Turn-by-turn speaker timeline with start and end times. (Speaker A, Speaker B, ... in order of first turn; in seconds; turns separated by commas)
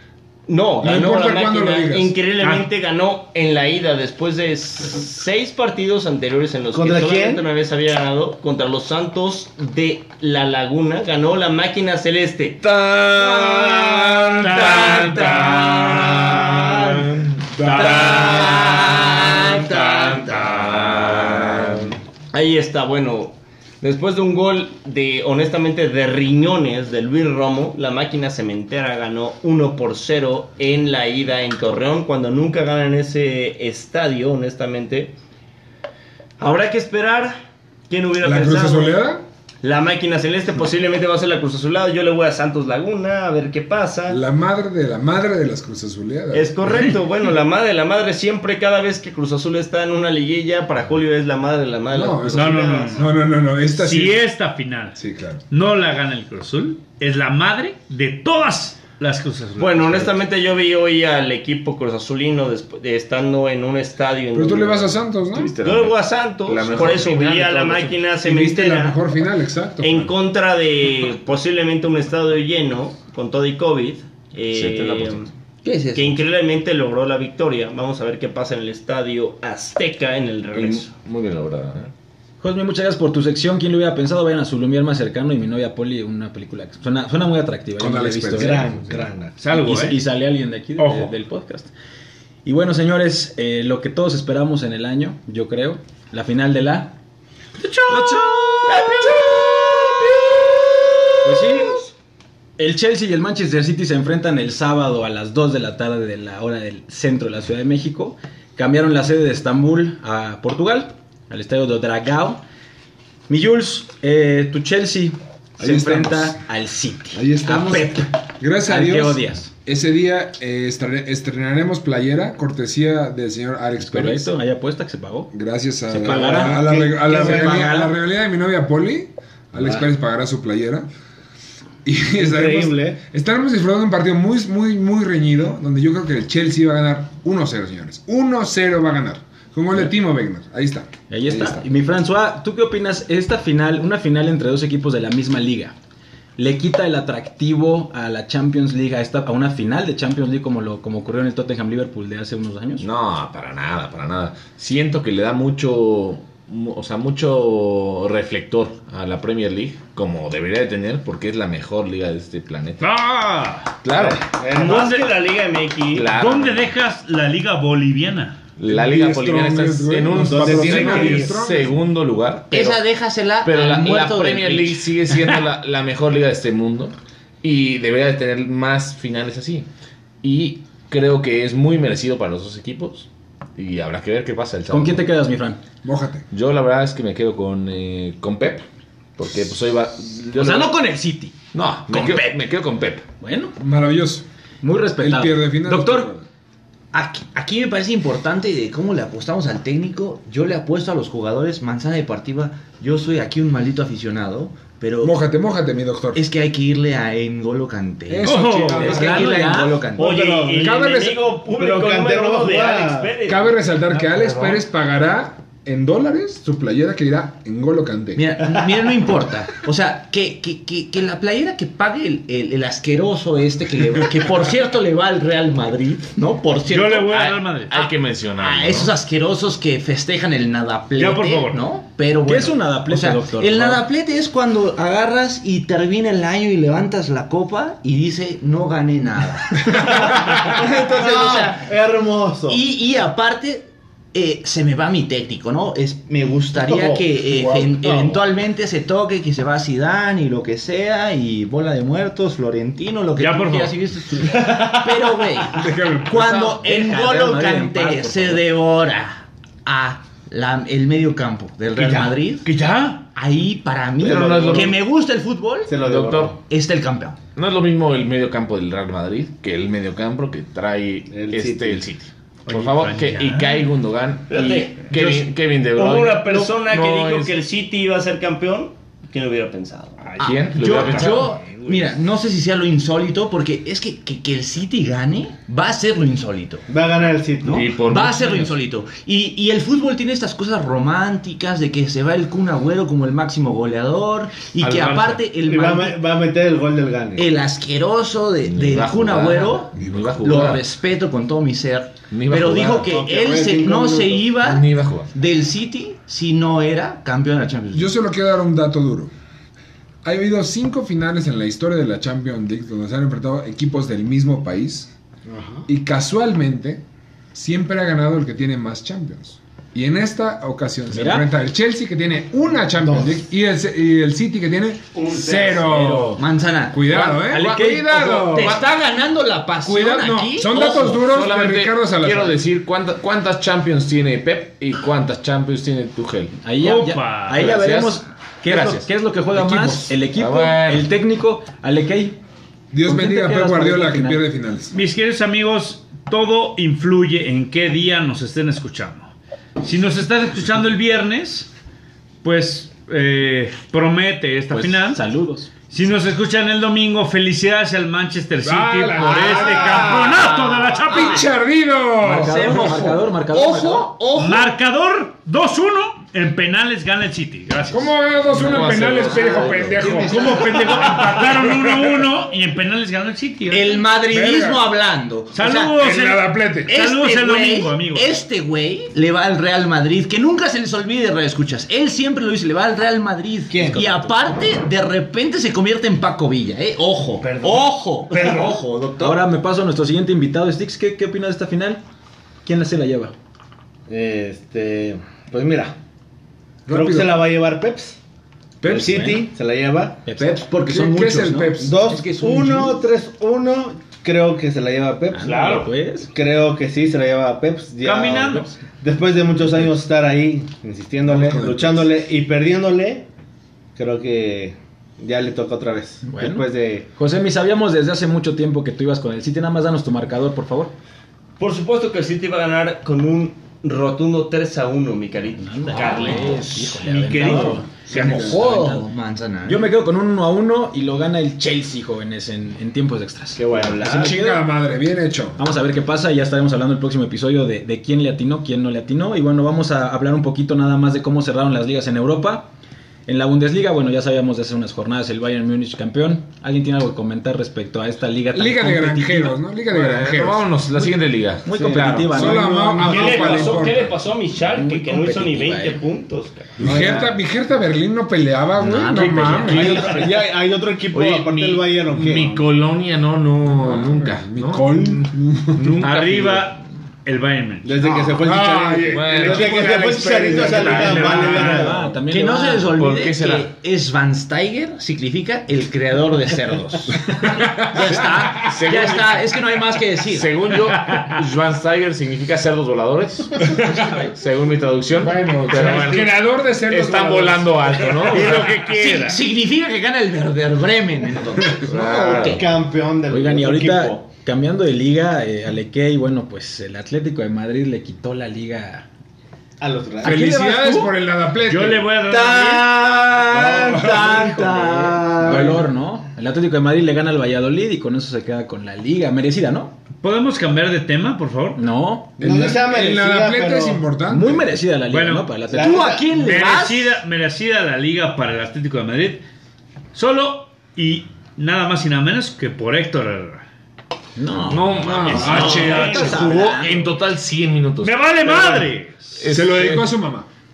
Speaker A: 0.5-12.6, Speaker B: 0.8-2.2, Speaker C: 2.4-2.7, Speaker D: 6.7-7.4, Speaker E: 12.6-21.9, Speaker C: 14.6-15.4, Speaker F: 17.7-20.6, Speaker A: 22.3-35.1, Speaker A: 36.4-37.4, Speaker A: 37.9-39.0, Speaker B: 38.2-39.2, Speaker A: 39.6-44.2, Speaker B: 44.1-46.6, Speaker A: 46.3-53.1, Speaker B: 51.9-54.2, Speaker C: 52.3-53.1, Speaker C: 53.7-60.2, Speaker B: 55.0-55.4, Speaker A: 59.6-65.0, Speaker B: 64.3-65.5, Speaker E: 65.3-68.0, Speaker A: 65.6-69.0, Speaker B: 68.2-70.1, Speaker A: 69.8-75.3, Speaker E: 74.5-75.3, Speaker F: 75.6-76.2, Speaker A: 75.9-80.9, Speaker E: 80.5-81.9, Speaker G: 82.4-91.7, Speaker B: 87.8-89.0, Speaker D: 88.3-89.4, Speaker C: 89.4-90.0, Speaker C: 90.8-91.1, Speaker G: 92.4-97.0, Speaker C: 97.6-99.2, Speaker G: 97.8-99.2, Speaker G: 101.2-101.7, Speaker G: 102.6-112.4, Speaker G: 113.3-119.5, Speaker B: 115.6-116.4, Speaker B: 117.1-124.3, Speaker G: 123.8-125.3, Speaker B: 125.3-130.9, Speaker G: 125.9-127.9, Speaker D: 126.0-127.9, Speaker D: 129.6-129.9, Speaker B: 131.8-141.6, Speaker D: 132.2-133.0, Speaker G: 141.1-145.7, Speaker G: 146.4-152.9, Speaker E: 152.8-162.8, Speaker C: 162.8-163.8, Speaker E: 163.8-164.3, Speaker D: 163.9-165.0, Speaker A: 164.5-166.1, Speaker C: 164.6-165.1, Speaker E: 165.9-166.7, Speaker C: 166.1-168.4, Speaker E: 168.6-172.9, Speaker B: 168.7-171.8, Speaker D: 170.1-171.4, Speaker F: 172.5-174.8, Speaker E: 173.4-179.7, Speaker C: 175.1-175.4, Speaker E: 180.2-185.0, Speaker G: 184.7-185.6, Speaker B: 185.8-186.2, Speaker E: 186.3-188.6, Speaker E: 189.2-190.8, Speaker G: 190.3-192.3, Speaker E: 191.5-193.0, Speaker G: 193.2-193.6, Speaker B: 193.6-194.2, Speaker G: 194.6-196.1, Speaker B: 195.0-196.2, Speaker F: 196.9-205.1, Speaker B: 205.0-206.2, Speaker F: 206.1-210.2, Speaker B: 208.1-211.2, Speaker C: 208.2-208.9, Speaker G: 208.4-209.8, Speaker A: 210.0-213.6, Speaker D: 211.5-213.2, Speaker B: 213.2-218.2, Speaker F: 218.1-227.2, Speaker C: 226.7-227.8, Speaker E: 227.1-228.9, Speaker F: 227.7-241.7, Speaker C: 231.0-231.7, Speaker G: 232.2-233.8, Speaker D: 239.7-242.6, Speaker F: 242.5-262.5, Speaker D: 246.6-248.2, Speaker B: 247.3-247.7, Speaker C: 253.2-255.3, Speaker B: 255.5-256.2, Speaker G: 256.1-258.5, Speaker C: 261.7-263.0, Speaker F: 263.1-265.7, Speaker D: 264.0-264.8, Speaker E: 264.0-264.8, Speaker D: 265.7-266.4, Speaker E: 265.8-266.3, Speaker F: 266.4-267.2, Speaker E: 267.4-277.3, Speaker D: 271.1-271.9, Speaker C: 272.4-273.6, Speaker A: 274.3-280.0, Speaker E: 280.2-281.4, Speaker F: 280.2-286.6, Speaker D: 286.7-287.7, Speaker F: 287.4-296.0, Speaker E: 287.5-288.5, Speaker C: 294.6-295.3, Speaker D: 295.4-297.3, Speaker F: 297.1-307.9, Speaker E: 298.4-300.6, Speaker E: 302.1-302.9, Speaker D: 302.8-304.4, Speaker E: 304.4-305.1, Speaker B: 307.7-309.1, Speaker B: 310.0-314.9, Speaker D: 315.3-315.6, Speaker B: 315.7-316.8, Speaker B: 317.3-328.6, Speaker G: 320.9-321.3, Speaker D: 322.8-323.2, Speaker G: 325.7-325.9, Speaker F: 326.1-326.8, Speaker G: 326.9-328.5, Speaker F: 328.3-330.8, Speaker E: 328.4-328.6, Speaker B: 329.6-332.4, Speaker E: 330.5-336.4, Speaker G: 336.4-342.2, Speaker C: 336.6-337.6, Speaker E: 337.4-338.9, Speaker B: 339.3-339.9, Speaker E: 340.1-340.9, Speaker B: 342.7-344.7, Speaker G: 342.8-344.2, Speaker C: 344.7-351.5, Speaker C: 352.2-355.1, Speaker G: 354.5-355.5, Speaker C: 355.7-361.3, Speaker B: 358.4-362.6, Speaker F: 359.3-360.0, Speaker F: 360.9-361.2, Speaker G: 362.0-363.9, Speaker F: 362.2-364.5, Speaker C: 364.1-368.0, Speaker B: 367.7-372.1, Speaker E: 368.3-370.0, Speaker F: 369.0-370.6, Speaker C: 370.0-373.8, Speaker F: 373.5-375.8, Speaker B: 374.1-374.6, Speaker C: 375.3-378.1, Speaker B: 375.7-376.7, Speaker F: 376.7-389.2, Speaker D: 383.5-384.0, Speaker D: 388.1-388.6, Speaker G: 389.0-391.8, Speaker G: 392.4-393.1, Speaker D: 393.9-395.7, Speaker B: 396.7-397.2, Speaker D: 396.7-398.0, Speaker B: 398.6-399.0, Speaker G: 398.6-399.3, Speaker D: 398.7-400.0, Speaker G: 400.0-400.6, Speaker F: 400.2-402.8, Speaker B: 400.4-401.8, Speaker G: 401.1-401.5, Speaker D: 401.6-405.4, Speaker G: 402.0-402.7, Speaker G: 405.1-406.1, Speaker C: 405.2-405.7, Speaker D: 406.0-413.1, Speaker C: 407.8-408.5, Speaker B: 411.1-411.9, Speaker D: 413.8-416.9, Speaker G: 416.0-420.7, Speaker A: 421.4-426.4, Speaker G: 425.4-428.9, Speaker C: 425.8-427.7, Speaker F: 427.1-429.7, Speaker B: 427.9-428.5, Speaker G: 429.4-434.5, Speaker B: 433.8-435.4, Speaker G: 435.4-442.5, Speaker G: 443.1-449.4, Speaker B: 448.3-450.5, Speaker E: 449.7-452.2, Speaker G: 451.4-452.8, Speaker D: 451.5-453.6, Speaker B: 452.1-453.9, Speaker A: 452.8-456.6, Speaker G: 454.4-455.8, Speaker G: 456.6-457.1, Speaker B: 456.6-460.1, Speaker G: 458.6-460.0, Speaker E: 458.7-460.0, Speaker D: 459.5-462.4, Speaker E: 460.9-466.5, Speaker B: 463.4-465.9, Speaker C: 465.8-467.9, Speaker D: 467.6-471.9, Speaker B: 468.2-471.7, Speaker E: 468.9-471.3, Speaker C: 470.5-471.6, Speaker G: 471.0-472.8, Speaker F: 472.1-480.3, Speaker E: 472.7-473.5, Speaker B: 477.2-478.6, Speaker E: 478.4-479.2, Speaker E: 480.0-483.4, Speaker B: 483.4-484.0, Speaker G: 483.6-484.1, Speaker E: 484.1-488.6, Speaker B: 484.9-488.4, Speaker C: 488.1-489.2, Speaker F: 488.7-492.4, Speaker E: 491.6-492.4, Speaker D: 491.8-494.0, Speaker G: 493.1-498.9, Speaker D: 499.6-500.2, Speaker G: 500.0-500.9, Speaker B: 500.0-501.9, Speaker C: 501.4-502.8, Speaker F: 502.1-505.6, Speaker B: 503.3-504.2, Speaker G: 503.9-509.7, Speaker D: 504.1-504.6, Speaker C: 510.0-511.6, Speaker G: 511.6-512.2, Speaker D: 512.2-513.9, Speaker B: 512.2-514.5, Speaker G: 514.1-515.8, Speaker C: 514.9-515.3, Speaker D: 515.5-516.0, Speaker F: 515.5-517.0, Speaker C: 516.1-519.2, Speaker C: 519.9-523.4, Speaker G: 524.1-527.0, Speaker E: 524.5-529.9, Speaker B: 524.9-526.3, Speaker C: 525.0-526.2, Speaker C: 527.8-529.2, Speaker B: 529.3-530.3